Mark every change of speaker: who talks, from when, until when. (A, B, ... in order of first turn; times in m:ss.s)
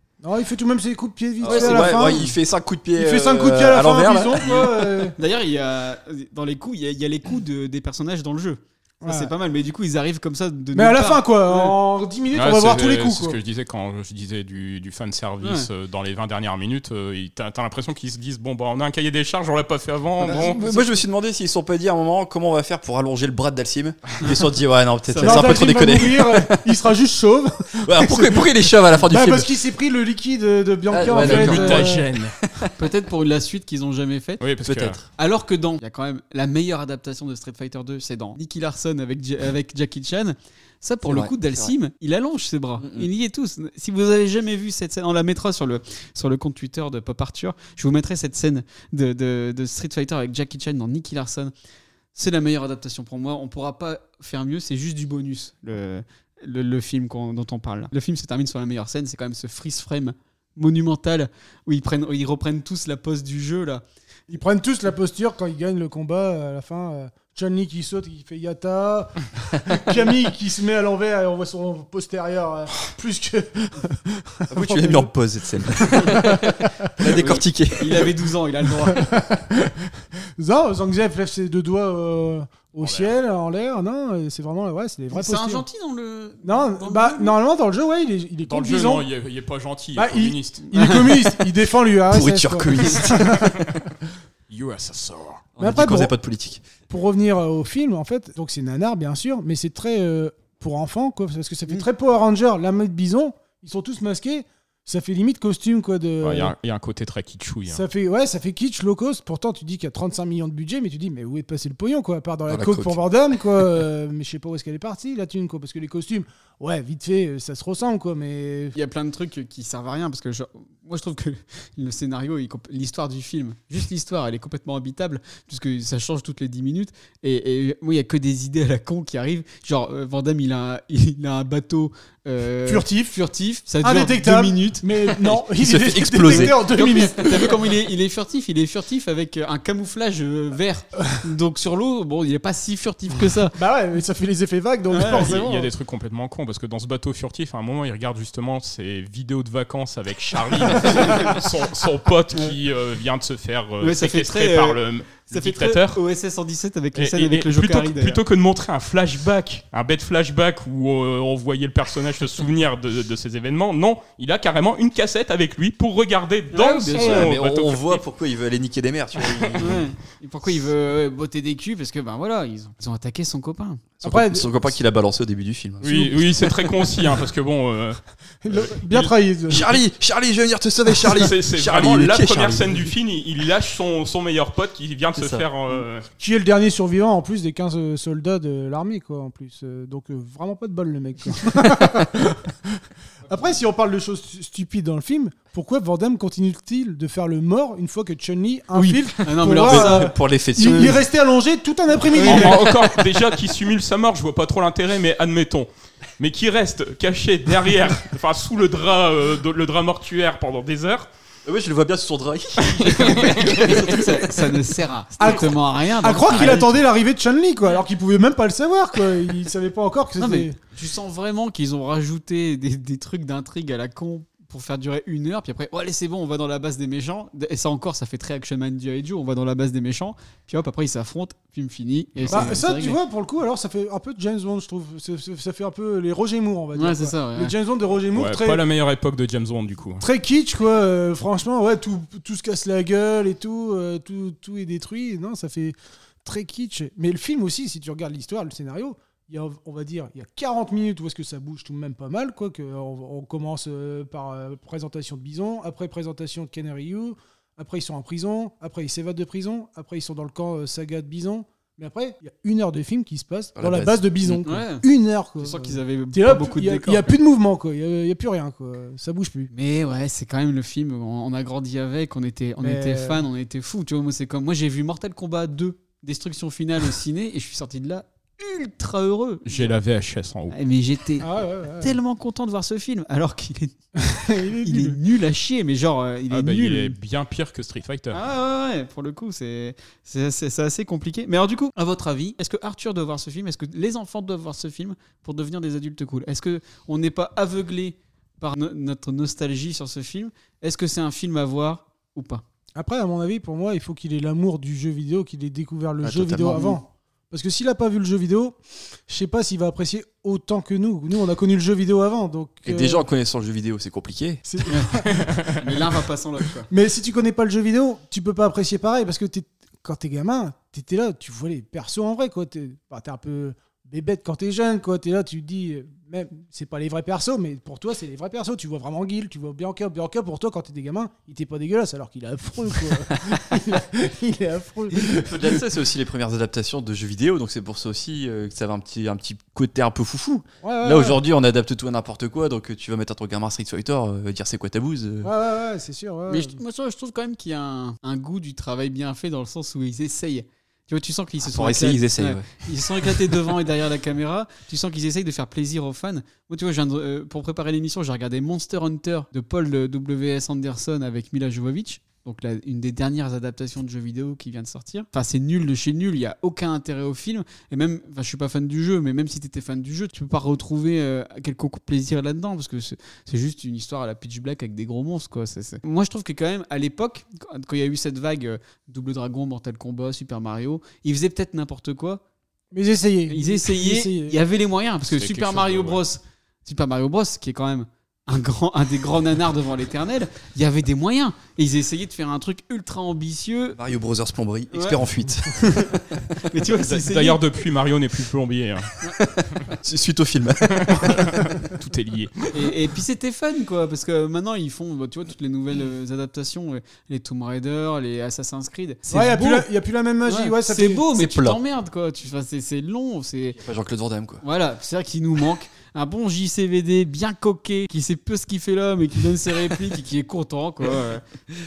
0:00.2-0:02.3 A
0:01.4-0:04.6 B
0:01.4-0:02.3 C
0:03.0-0:05.2 A
0:04.4-0:11.8 C
0:09.0-0:09.3 A
0:10.7-0:13.4 A
0:12.3-0:20.6 D
0:15.4-0:15.7 C
0:20.2-0:26.6 B
0:20.3-0:20.9 A
0:25.1-0:25.7 C
0:25.2-0:32.1 A
0:27.8-0:29.5 B
0:30.9-0:32.7 B
0:31.0-0:32.4 D
0:32.8-0:34.4 C
0:34.4-0:35.0 D
0:34.6-0:35.1 B
0:35.2-0:51.5 C
0:41.0-0:41.7 B
0:42.8-0:43.1 B
0:52.1-1:03.8 C
1:04.3-1:15.1 A
1:14.5-1:18.1 B
1:15.6-1:16.7 A
1:17.1-1:19.1 C
1:18.9-1:19.8 A
1:20.4-1:25.7 A
1:22.8-1:23.1 D
1:25.1-1:27.4 C
1:26.4-1:29.1 A
1:28.5-1:30.7 D
1:30.0-1:33.6 A
1:30.7-1:31.1 C
1:32.1-1:33.6 B
1:34.5-1:35.4 D
1:35.6-1:36.6 B
1:35.6-1:36.1 A
1:36.9-1:46.5 A
1:46.2-1:47.8 D
1:47.7-1:58.8 A
1:52.5-1:53.0 B
1:58.8-2:15.3 C
2:12.7-2:13.2 A
2:13.8-2:17.6 A
2:15.6-2:16.8 B
2:16.3-2:23.6 C
2:23.6-2:25.7 A
2:24.9-2:25.3 C
2:25.0-2:36.0 D
2:30.8-2:31.3 C
2:33.8-2:34.8 C
2:35.3-2:38.2 C
2:37.0-2:48.0 D
2:46.5-2:47.3 C
2:46.9-2:49.8 B
2:49.6-2:53.8 C
2:54.0-2:56.3 B
2:54.0-2:54.5 A
2:55.8-2:59.1 D
2:55.9-2:56.7 A
2:58.4-2:59.7 A
2:59.5-3:02.9 B
3:01.0-3:06.1 D
3:05.2-3:05.5 B
3:06.2-3:22.8 A
3:18.7-3:20.1 C
3:19.6-3:21.0 B
3:22.1-3:22.5 C
3:22.2-3:31.1 D
3:31.5-3:34.3 B
3:32.8-3:33.8 D
3:33.1-3:36.7 C
3:35.2-3:40.6 A
3:40.2-3:53.0 C
3:52.2-3:52.4 D
3:52.3-3:58.6 A
3:56.8-3:57.5 C
3:58.1-4:00.0 D
4:00.0-4:29.5 A
4:23.6-4:24.4 B
4:24.4-4:24.8 C
4:25.4-4:27.2 C
4:29.5-4:39.7 C
4:32.6-4:33.3 A
4:39.5-4:40.6 D
4:40.5-4:43.7 C
4:41.2-4:42.0 A
4:44.0-4:45.0 A
4:44.6-4:47.0 C
4:46.3-4:48.2 D
4:48.1-5:02.4 C
5:02.8-5:13.0 A
5:06.0-5:06.7 B
5:12.6-5:14.4 B
5:14.4-5:15.5 A
5:14.7-5:14.9 C
5:14.9-5:15.8 D
5:15.5-5:16.7 C
5:16.7-5:35.7 A
5:35.0-5:45.3 B
5:40.6-5:41.2 A
5:45.2-5:46.6 A
5:46.3-6:22.2 C
5:51.4-5:53.2 B
6:22.7-6:24.4 A
6:23.3-6:33.8 C
6:25.1-6:26.0 D
6:33.7-6:36.4 B
6:34.7-6:35.0 C
6:35.6-6:37.4 C
6:36.8-6:38.9 D
6:39.2-6:41.4 B
6:40.8-6:42.5 D
6:42.5-6:49.7 C
6:49.1-6:51.1 A
6:50.2-6:53.6 C
6:51.1-6:51.6 B
6:53.6-6:54.4 B
6:54.4-7:01.2 C